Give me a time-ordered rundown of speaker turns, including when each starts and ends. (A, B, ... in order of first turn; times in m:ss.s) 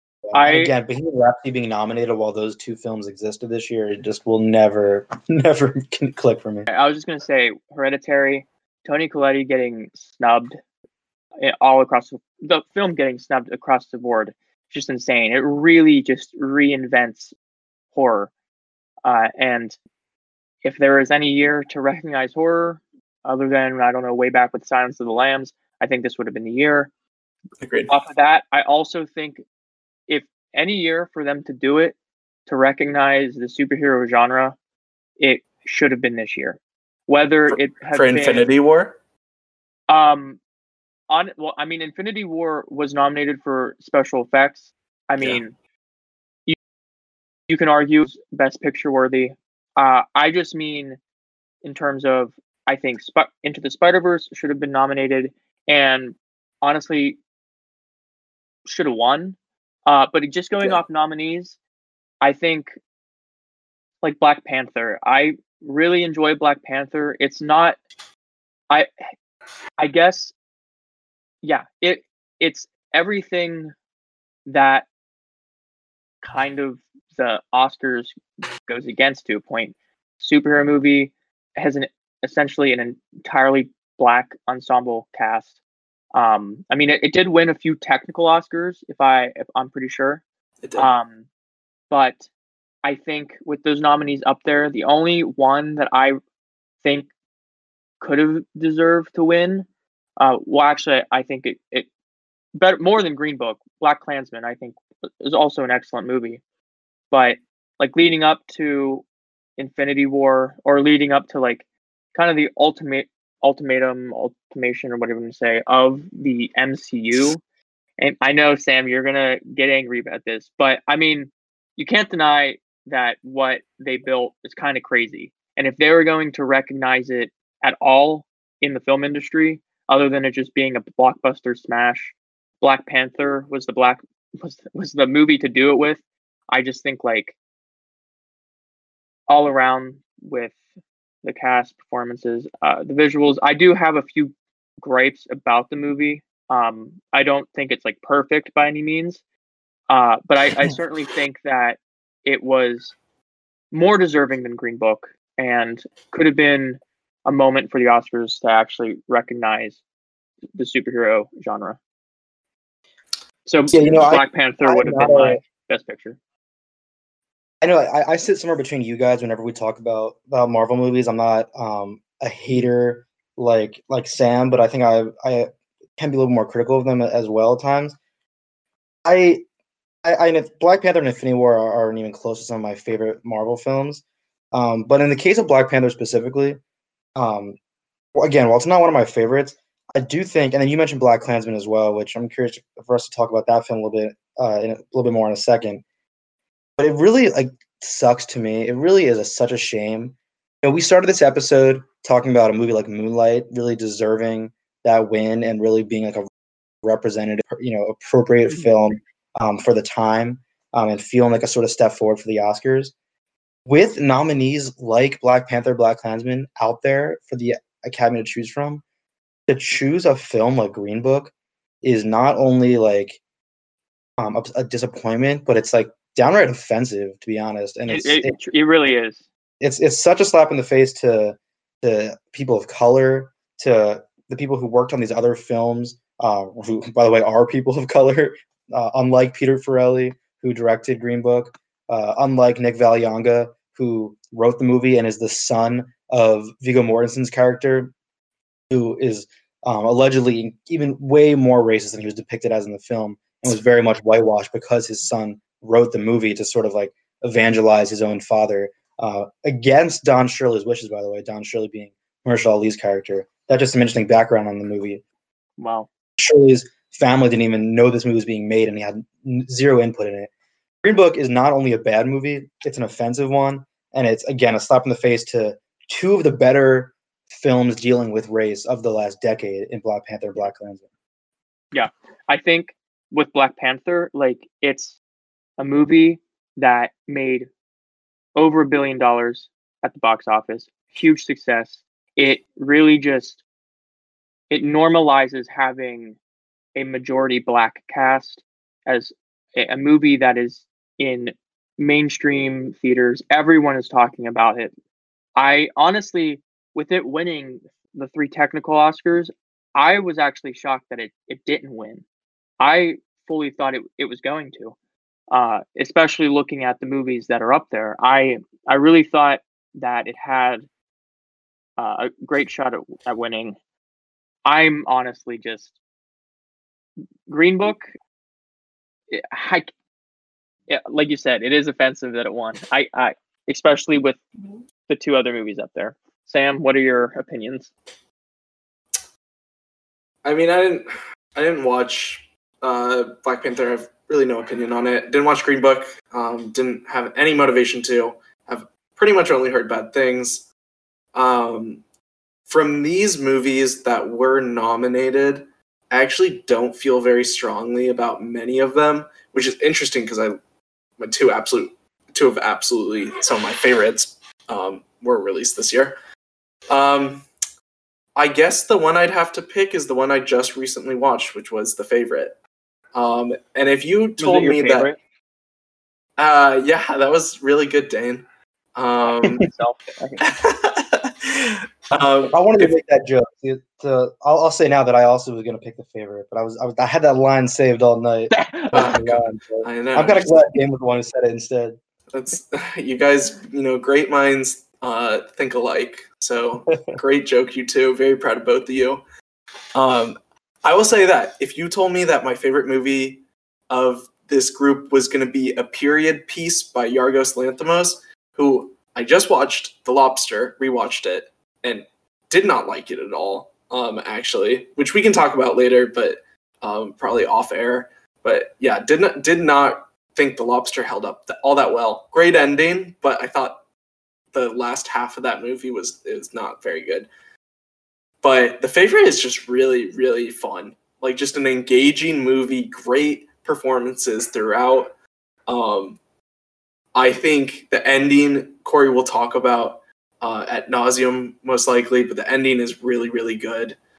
0:00.2-0:06.7 A
0:00.3-0:00.7 B
0:06.7-0:10.6 B
0:11.4-0:17.3 B
0:17.9-0:18.3 B
0:19.0-0:19.8 B
0:20.6-0:26.9 B
0:27.6-0:27.9 C
0:27.9-0:29.4 B
0:30.1-0:31.9 B
0:32.5-0:34.6 B
0:35.2-0:38.4 B
0:37.5-0:39.0 C
0:39.9-0:40.4 B
0:41.1-0:45.5 B
0:47.5-0:51.0 B
0:51.6-0:57.2 B
0:58.6-1:01.6 B
1:02.2-1:02.7 B
1:04.0-1:07.8 B
1:09.8-1:10.3 B
1:11.4-1:13.7 B
1:14.4-1:14.8 B
1:16.2-1:25.5 B
1:26.1-1:30.2 B
1:30.6-1:30.9 C
1:30.8-1:31.2 B
1:31.9-1:32.3 B
1:32.8-1:36.2 B
1:36.8-1:37.1 B
1:38.0-1:41.9 B
1:42.5-1:46.4 B
1:47.1-1:49.0 B
1:49.6-1:51.6 B
1:52.1-1:57.4 B
1:58.0-2:17.3 B
2:19.3-2:20.6 B
2:21.2-2:29.2 B
2:29.9-2:32.9 B
2:33.7-2:39.8 B
2:40.6-2:41.8 B
2:43.4-2:46.2 B
2:43.7-2:45.4 A
2:47.6-2:58.0 A
2:59.0-2:59.4 A
3:00.0-3:06.6 A
3:07.1-3:07.6 A
3:08.1-3:15.8 A
3:16.8-3:26.3 A
3:26.8-3:32.9 A
3:33.6-3:38.8 A
3:39.5-3:43.2 A
3:44.2-3:48.3 A
3:47.9-3:49.2 B
3:49.6-4:07.9 A
4:08.7-4:25.0 A
4:25.6-4:25.9 B
4:26.2-4:30.3 A
4:30.8-4:40.8 A
4:41.7-4:45.0 B
4:45.6-4:47.5 B
4:48.4-4:53.4 B
4:54.5-4:56.2 B
4:56.7-5:04.7 B
5:05.4-5:12.0 B
5:12.6-5:14.7 B
5:15.3-5:20.7 B
5:21.8-5:23.6 B
5:24.4-5:25.7 B
5:27.3-5:27.9 B
5:29.1-5:29.7 B
5:30.7-5:34.2 B
5:34.9-5:37.7 B
5:40.2-5:50.5 C
5:51.1-5:51.8 C
5:52.5-6:00.4 C
6:01.0-6:06.0 C
6:06.7-6:07.2 C
6:08.1-6:12.4 C
6:12.9-6:14.9 C
6:14.2-6:15.0 B
6:16.2-6:19.5 C
6:19.0-6:20.2 B
6:20.2-6:22.7 C
6:21.9-6:31.8 A
6:28.3-6:28.8 B
6:28.7-6:30.4 C
6:32.1-6:39.0 C
6:39.7-7:03.6 C
7:04.3-7:07.1 C
7:08.2-7:14.9 C
7:15.5-7:16.0 C
7:16.9-7:23.8 C